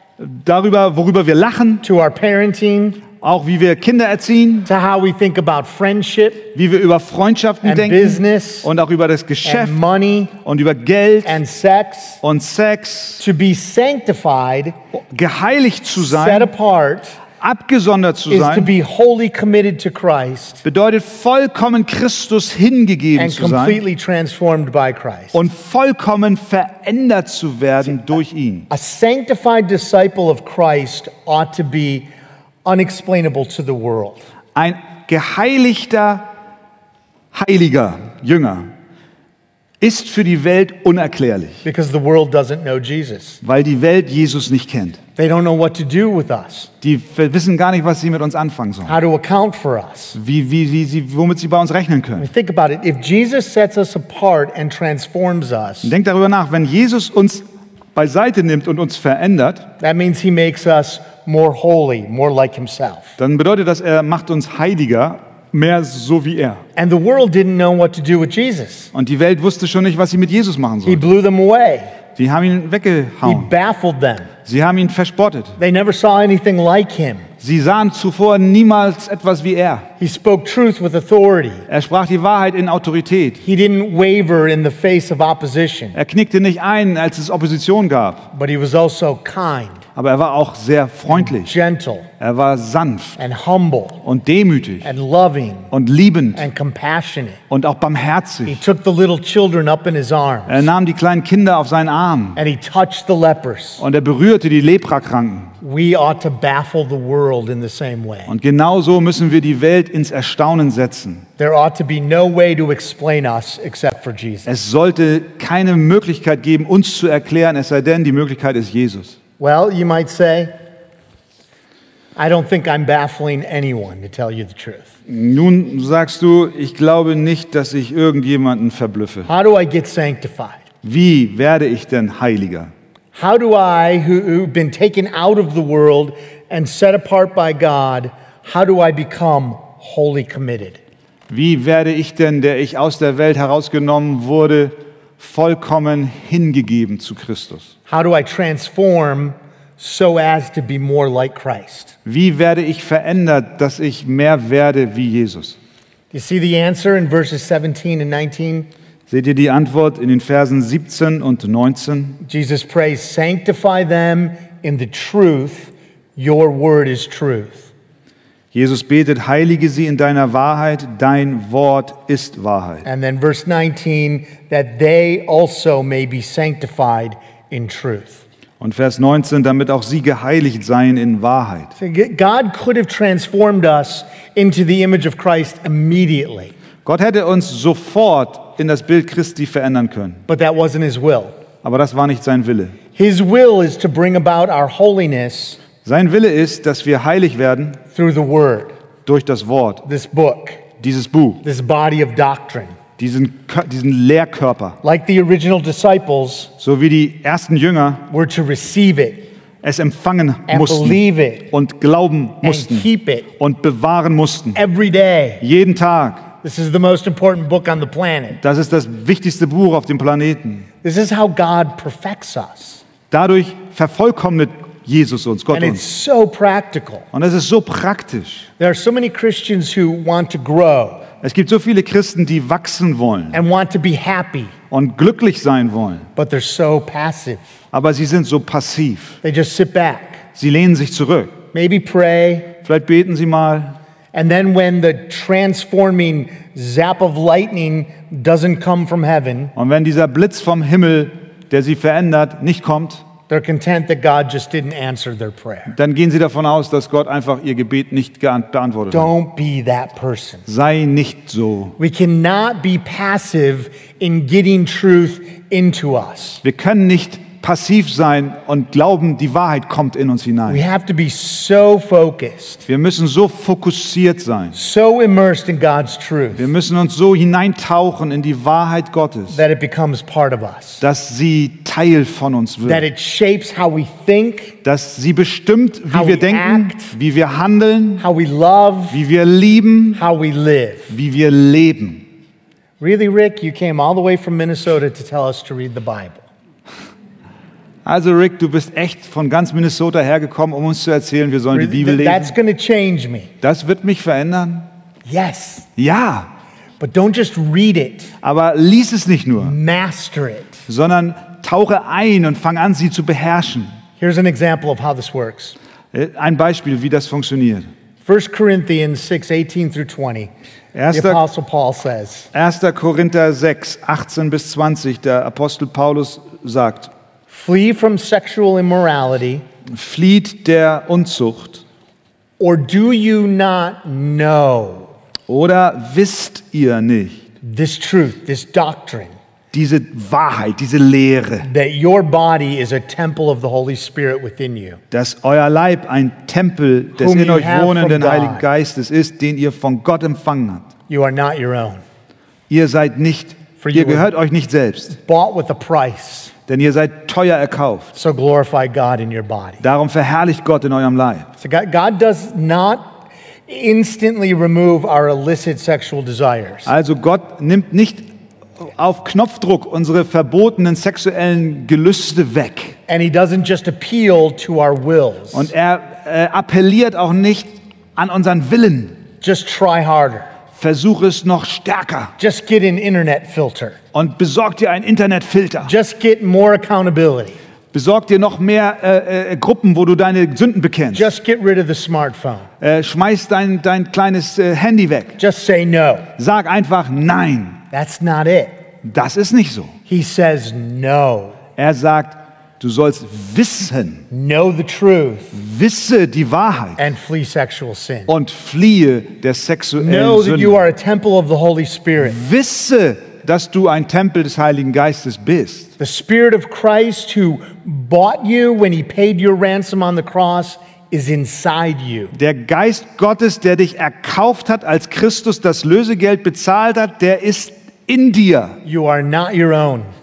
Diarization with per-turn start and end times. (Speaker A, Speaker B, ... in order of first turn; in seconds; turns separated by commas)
Speaker A: 0.2-1.8, Speaker B: 1.8-3.0, Speaker A: 3.2-4.7, Speaker B: 4.7-6.5, Speaker A: 6.5-9.8, Speaker B: 7.6-8.7, Speaker B: 9.4-10.3, Speaker A: 10.4-11.4, Speaker B: 11.2-12.2, Speaker A: 12.2-13.2, Speaker B: 13.2-14.8, Speaker A: 14.9-16.5, Speaker B: 15.9-17.2, Speaker A: 17.4-18.7, Speaker B: 18.3-20.6, Speaker A: 20.6-23.8, Speaker B: 23.1-25.4, Speaker A: 25.3-28.7, Speaker B: 28.7-32.1, Speaker B: 32.6-34.2, Speaker A: 34.5-36.3, Speaker A: 37.3-38.7, Speaker A: 39.8-41.6, Speaker B: 41.6-43.4, Speaker A: 43.4-45.0, Speaker B: 45.2-46.7, Speaker A: 46.8-49.0, Speaker B: 48.9-50.2, Speaker A: 50.1-52.3, Speaker B: 52.2-55.9, Speaker A: 55.8-57.4, Speaker A: 57.9-59.7, Speaker B: 59.8-63.1, Speaker A: 63.2-66.6, Speaker B: 66.8-68.9, Speaker A: 68.9-71.0, Speaker B: 70.8-71.9, Speaker A: 72.2-73.5, Speaker B: 73.2-74.3, Speaker A: 74.4-75.5, Speaker B: 75.6-77.3, Speaker A: 77.4-79.9, Speaker B: 80.0-81.7, Speaker A: 81.7-83.4, Speaker B: 83.4-86.0, Speaker A: 85.9-88.3, Speaker B: 88.3-89.8, Speaker A: 90.0-91.5, Speaker B: 91.1-92.1, Speaker A: 92.2-93.2, Speaker B: 93.2-94.0, Speaker A: 94.0-94.9, Speaker B: 94.8-95.7, Speaker A: 95.7-96.5, Speaker B: 96.3-97.4, Speaker A: 97.5-98.6, Speaker B: 98.5-100.7, Speaker A: 100.5-102.4, Speaker B: 102.3-103.8, Speaker A: 103.8-105.5, Speaker B: 105.6-108.3, Speaker A: 108.3-111.2, Speaker B: 111.4-114.5, Speaker A: 114.5-119.2, Speaker B: 119.4-120.5, Speaker B: 122.2-124.9, Speaker A: 125.1-129.3, Speaker B: 129.2-130.6, Speaker A: 130.8-132.7, Speaker B: 133.1-140.8, Speaker A: 141.3-147.7, Speaker B: 147.9-151.9, Speaker A: 152.0-155.6, Speaker B: 156.1-158.7, Speaker A: 159.1-162.2, Speaker B: 162.2-167.7, Speaker A: 168.5-172.8, Speaker B: 172.8-178.2, Speaker A: 178.6-181.7, Speaker B: 181.8-186.5, Speaker A: 186.8-190.2, Speaker B: 190.3-191.3, Speaker A: 191.6-192.8, Speaker B: 192.9-195.6, Speaker A: 195.8-197.8, Speaker B: 197.9-198.7, Speaker A: 199.1-199.8, Speaker B: 199.8-200.6, Speaker A: 200.8-201.4, Speaker B: 201.4-202.8, Speaker A: 203.0-204.8, Speaker B: 204.8-206.5, Speaker A: 206.6-208.1, Speaker B: 208.1-209.3, Speaker A: 209.6-211.0, Speaker B: 210.5-211.5, Speaker A: 211.5-212.9, Speaker B: 212.4-213.3, Speaker A: 213.4-214.6, Speaker B: 214.5-215.4, Speaker A: 215.4-216.3, Speaker B: 216.4-218.4, Speaker A: 218.4-220.7, Speaker B: 220.8-222.8, Speaker A: 223.1-225.8, Speaker B: 225.5-227.1, Speaker A: 227.1-228.5, Speaker B: 228.6-231.1, Speaker A: 231.2-233.4, Speaker B: 233.3-234.5, Speaker A: 234.7-236.1, Speaker B: 236.2-237.4, Speaker A: 237.7-239.2, Speaker B: 239.2-240.2, Speaker A: 240.3-241.4, Speaker B: 241.5-242.6, Speaker A: 242.6-243.8, Speaker B: 244.1-249.5, Speaker A: 249.6-253.0, Speaker B: 253.3-255.7, Speaker A: 255.7-259.1, Speaker B: 258.9-260.4, Speaker A: 260.4-261.7, Speaker B: 261.8-266.4, Speaker A: 266.4-270.6, Speaker B: 270.5-272.6, Speaker A: 272.7-274.6, Speaker B: 274.5-276.5, Speaker A: 276.3-279.4, Speaker B: 279.3-280.8, Speaker A: 280.8-282.9, Speaker B: 282.6-284.6, Speaker A: 284.6-288.1, Speaker B: 285.9-286.9, Speaker B: 288.0-289.0, Speaker A: 288.9-290.0, Speaker B: 289.9-290.9, Speaker A: 290.9-292.0, Speaker B: 292.8-296.2, Speaker A: 297.8-302.3, Speaker B: 301.5-303.3, Speaker A: 303.4-304.7, Speaker B: 305.1-305.7, Speaker A: 305.8-306.3, Speaker B: 306.8-308.1, Speaker A: 308.2-309.5, Speaker B: 309.4-310.6, Speaker A: 310.7-313.7, Speaker B: 314.0-315.6, Speaker A: 315.9-317.7, Speaker B: 318.0-320.3, Speaker A: 320.7-321.2, Speaker B: 320.9-322.3, Speaker A: 322.3-326.9, Speaker B: 327.3-329.4, Speaker A: 329.7-331.6, Speaker B: 332.4-334.9, Speaker A: 335.3-337.2, Speaker B: 337.4-339.1, Speaker A: 339.5-341.5, Speaker B: 341.4-344.8, Speaker A: 344.9-350.7, Speaker B: 346.9-348.4, Speaker B: 350.9-351.8, Speaker A: 352.5-354.9, Speaker B: 353.6-354.1, Speaker B: 354.9-356.3, Speaker A: 356.5-357.9, Speaker B: 357.9-359.6, Speaker A: 359.6-361.3, Speaker B: 361.4-366.7, Speaker A: 366.6-368.1, Speaker A: 368.6-372.8, Speaker B: 372.9-375.5, Speaker A: 375.3-379.0, Speaker B: 379.2-380.3, Speaker A: 380.6-382.1, Speaker B: 382.2-383.8, Speaker A: 383.9-385.7, Speaker B: 385.6-387.4, Speaker A: 387.7-391.1, Speaker B: 390.9-392.5, Speaker A: 392.6-395.2, Speaker B: 395.2-396.1, Speaker A: 396.2-397.6, Speaker B: 397.7-398.6, Speaker A: 398.8-399.7, Speaker B: 399.9-401.4, Speaker A: 401.6-404.0, Speaker B: 404.1-405.3, Speaker A: 405.3-406.8, Speaker B: 406.8-408.1, Speaker A: 408.1-410.6, Speaker B: 409.8-412.2, Speaker A: 412.0-415.7, Speaker B: 415.8-422.1, Speaker A: 422.1-428.6, Speaker B: 428.6-429.9